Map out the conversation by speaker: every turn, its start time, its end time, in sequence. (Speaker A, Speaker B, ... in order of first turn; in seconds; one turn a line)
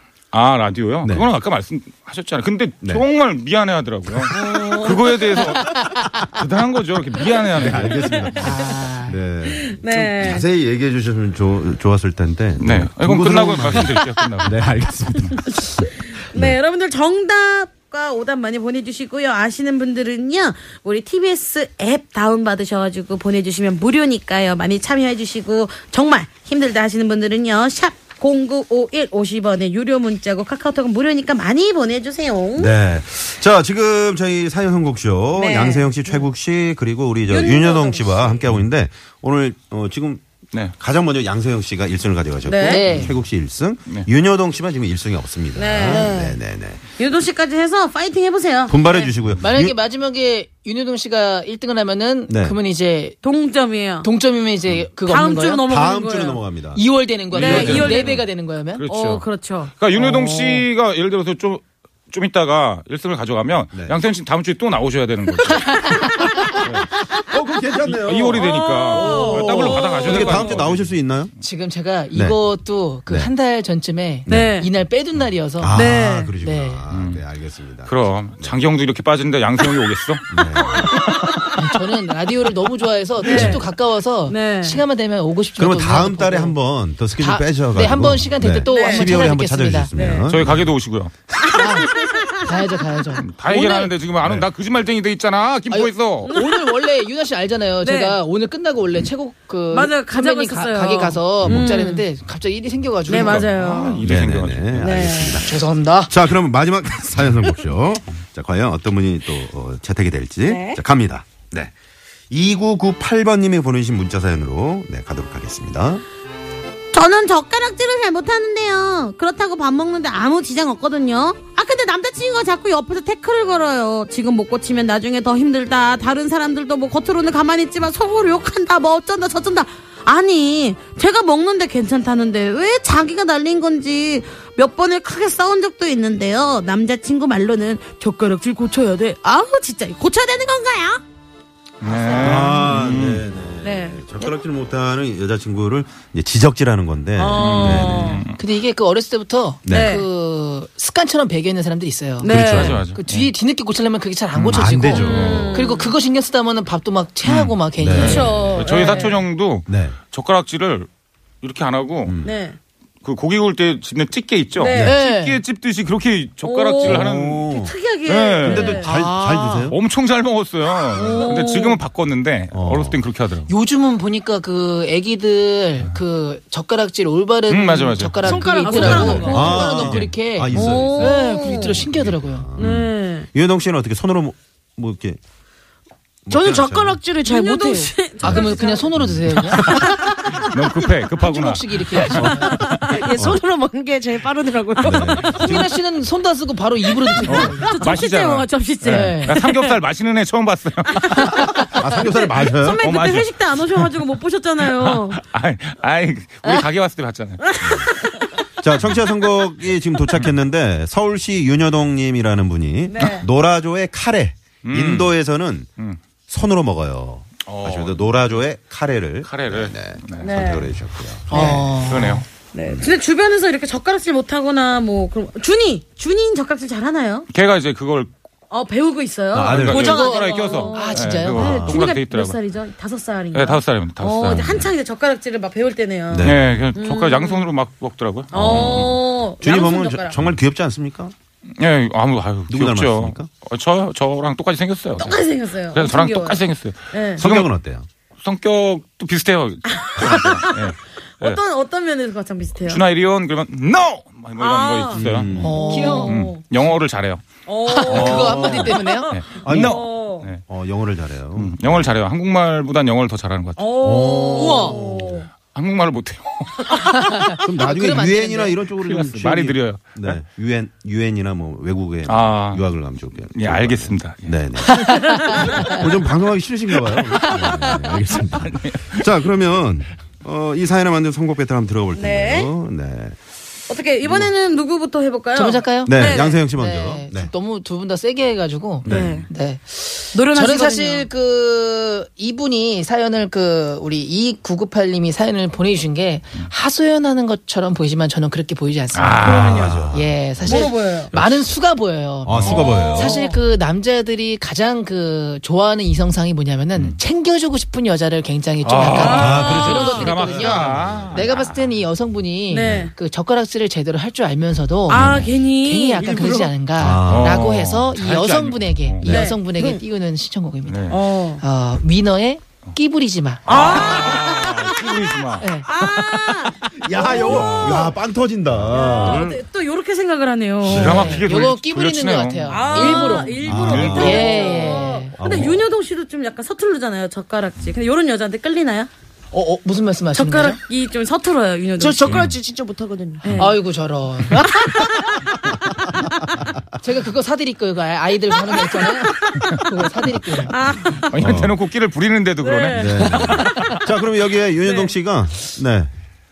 Speaker A: 0.3-8.3
Speaker B: 1.0-1.3
Speaker C: 4.3-5.6
Speaker B: 7.5-16.6
Speaker C: 8.0-8.4
Speaker D: 8.4-9.2
Speaker C: 9.4-10.4
Speaker A: 12.6-14.7
Speaker C: 15.2-32.7
Speaker B: 32.5-40.2
Speaker C: 35.3-36.2
Speaker C: 37.3-38.4
Speaker B: 40.8-46.8
Speaker C: 42.4-42.8
Speaker D: 42.6-43.1
Speaker C: 45.5-46.4
Speaker C: 47.0-49.1
Speaker B: 48.7-49.7
Speaker D: 49.4-53.2
Speaker B: 52.3-52.6
Speaker C: 53.2-54.1
Speaker D: 54.0-55.6
Speaker C: 55.0-56.4
Speaker B: 55.7-56.8
Speaker D: 56.7-58.9
Speaker C: 57.3-58.1
Speaker B: 57.4-58.2
Speaker A: 57.4-58.0
Speaker A: 58.8-66.9
Speaker C: 58.9-59.7
Speaker B: 63.7-64.0
Speaker D: 65.7-66.1
Speaker B: 67.1-71.3
Speaker A: 67.8-70.9
Speaker C: 68.4-70.5
Speaker D: 71.4-76.8
Speaker B: 74.3-74.5
Speaker C: 74.3-74.7
Speaker B: 75.6-78.6
Speaker C: 75.7-76.3
Speaker A: 76.9-77.3
Speaker A: 77.8-80.3
Speaker B: 80.3-81.1
Speaker D: 81.0-86.6
Speaker C: 83.2-83.6
Speaker B: 83.2-83.6
Speaker C: 84.3-84.8
Speaker B: 85.6-90.7
Speaker D: 87.2-89.9
Speaker C: 88.7-89.1
Speaker C: 89.9-90.3
Speaker A: 90.2-91.1
Speaker C: 91.4-92.6
Speaker D: 91.5-93.2
Speaker A: 93.2-96.3
Speaker C: 93.5-93.9
Speaker D: 95.7-103.5
Speaker C: 96.3-96.6
Speaker C: 97.8-98.2
Speaker C: 99.7-102.0
Speaker B: 101.4-101.7
Speaker A: 103.1-105.3
Speaker C: 103.1-104.0
Speaker B: 104.0-105.6
Speaker C: 104.8-105.4
Speaker D: 105.4-106.1
Speaker B: 106.1-111.7
Speaker C: 110.4-110.8
Speaker B: 112.3-116.0
Speaker C: 116.9-141.0
Speaker A: 141.8-143.2
Speaker B: 141.9-148.2
Speaker C: 143.6-144.0
Speaker C: 147.2-148.2
Speaker A: 147.4-148.4
Speaker D: 148.3-159.1
Speaker B: 149.6-150.0
Speaker C: 149.7-150.1
Speaker C: 152.2-152.8
Speaker B: 152.2-152.8
Speaker A: 152.4-153.3
Speaker A: 154.3-155.5
Speaker B: 154.4-155.5
Speaker C: 155.0-155.9
Speaker A: 157.2-160.9
Speaker B: 157.8-158.4
Speaker C: 158.0-159.2
Speaker B: 159.7-160.0
Speaker A: 161.4-162.2
Speaker B: 162.0-162.4
Speaker C: 162.2-162.6
Speaker A: 163.0-167.5
Speaker C: 164.6-164.9
Speaker D: 164.8-165.4
Speaker C: 166.4-168.9
Speaker B: 166.8-167.8
Speaker A: 168.0-168.9
Speaker B: 168.4-169.8
Speaker D: 168.8-169.7
Speaker A: 169.7-173.5
Speaker C: 170.9-171.8
Speaker B: 172.5-173.0
Speaker D: 173.5-182.5
Speaker A: 177.5-180.1
Speaker E: 178.2-179.4
Speaker C: 178.4-180.0
Speaker B: 179.2-185.2
Speaker C: 180.5-181.8
Speaker C: 182.6-183.3
Speaker B: 186.3-187.0
Speaker E: 186.3-187.9
Speaker C: 187.2-188.9
Speaker B: 188.2-189.6
Speaker D: 188.2-189.7
Speaker A: 189.5-192.8
Speaker C: 189.6-190.1
Speaker D: 191.2-192.6
Speaker B: 192.1-193.4
Speaker E: 192.9-195.0
Speaker C: 194.8-195.7
Speaker B: 194.8-195.7
Speaker D: 195.2-197.9
Speaker C: 197.1-199.7
Speaker A: 197.2-201.4
Speaker D: 198.8-199.4
Speaker C: 201.0-201.5
Speaker B: 201.7-202.8
Speaker C: 202.1-205.2
Speaker A: 202.5-204.0
Speaker A: 204.6-207.9
Speaker C: 207.4-208.2
Speaker B: 208.6-215.7
Speaker C: 212.9-213.3
Speaker A: 214.6-215.2
Speaker B: 216.3-221.8
Speaker A: 217.4-218.2
Speaker A: 219.2-220.4
Speaker C: 220.2-220.7
Speaker D: 221.3-222.2
Speaker A: 221.3-222.2
Speaker C: 222.5-227.3
Speaker A: 227.3-228.1
Speaker C: 228.5-237.5
Speaker B: 229.3-229.9
Speaker A: 229.3-232.4
Speaker D: 229.7-231.6
Speaker B: 231.3-231.8
Speaker A: 233.3-234.7
Speaker B: 236.1-236.5
Speaker A: 236.2-239.0
Speaker C: 238.3-240.2
Speaker B: 238.3-241.1
Speaker A: 241.5-247.5
Speaker B: 242.5-243.3
Speaker C: 244.9-247.2
Speaker B: 247.2-247.9
Speaker A: 248.2-251.4
Speaker C: 249.7-252.8
Speaker A: 252.6-255.3
Speaker C: 254.4-255.0
Speaker B: 254.9-255.7
Speaker D: 255.4-256.2
Speaker E: 255.7-256.1
Speaker C: 255.7-256.4
Speaker A: 256.0-257.2
Speaker C: 257.5-260.3
Speaker D: 257.7-259.2
Speaker B: 257.9-258.8
Speaker A: 257.9-260.4
Speaker B: 259.4-259.9
Speaker B: 260.4-261.9
Speaker A: 261.3-263.7
Speaker C: 263.6-265.3
Speaker B: 263.8-265.2
Speaker E: 264.4-264.8
Speaker A: 265.5-267.2
Speaker D: 267.3-268.6
Speaker B: 267.4-283.2
Speaker A: 268.8-270.2
Speaker A: 272.1-272.6
Speaker A: 273.3-274.4
Speaker D: 274.7-275.4
Speaker C: 275.0-275.7
Speaker D: 277.2-278.0
Speaker A: 278.4-279.1
Speaker C: 281.9-282.5
Speaker C: 283.7-286.4
Speaker B: 284.0-284.3
Speaker D: 285.3-323.5
Speaker B: 285.9-287.3
Speaker B: 288.8-289.2
Speaker C: 288.8-289.3
Speaker C: 290.1-291.1
Speaker A: 298.9-300.0
Speaker C: 299.2-299.8
Speaker B: 299.3-301.5
Speaker C: 300.4-301.1
Speaker B: 302.2-303.2
Speaker A: 302.3-302.7
Speaker C: 302.4-303.4
Speaker A: 308.6-311.6
Speaker C: 309.0-310.1
Speaker B: 309.0-311.3
Speaker C: 312.5-312.9
Speaker C: 314.9-316.5
Speaker B: 314.9-315.3
Speaker B: 316.8-317.4
Speaker A: 317.0-319.3
Speaker C: 319.0-319.4
Speaker A: 320.6-321.0
Speaker C: 320.9-321.4
Speaker A: 323.4-327.9
Speaker C: 323.5-325.1
Speaker D: 325.4-325.6
Speaker C: 325.6-327.9
Speaker B: 326.8-329.3
Speaker C: 328.7-330.9
Speaker A: 328.7-329.4
Speaker B: 330.6-331.2
Speaker A: 330.6-332.8
Speaker D: 330.7-335.1
Speaker C: 332.5-338.9
Speaker E: 332.7-333.3
Speaker B: 333.4-334.4
Speaker A: 333.5-334.3
Speaker B: 335.1-335.7
Speaker D: 339.3-340.6
Speaker C: 340.1-342.3
Speaker E: 341.8-343.3
Speaker A: 342.0-342.3
Speaker C: 343.2-343.5
Speaker A: 343.2-343.5
Speaker D: 343.4-344.4
Speaker C: 344.5-345.1
Speaker D: 346.8-350.5
Speaker C: 348.5-349.5
Speaker C: 350.4-351.3
Speaker A: 350.9-353.8
Speaker B: 351.2-351.6
Speaker C: 352.4-353.3
Speaker B: 352.7-355.9
Speaker D: 353.2-353.8
Speaker C: 354.6-354.9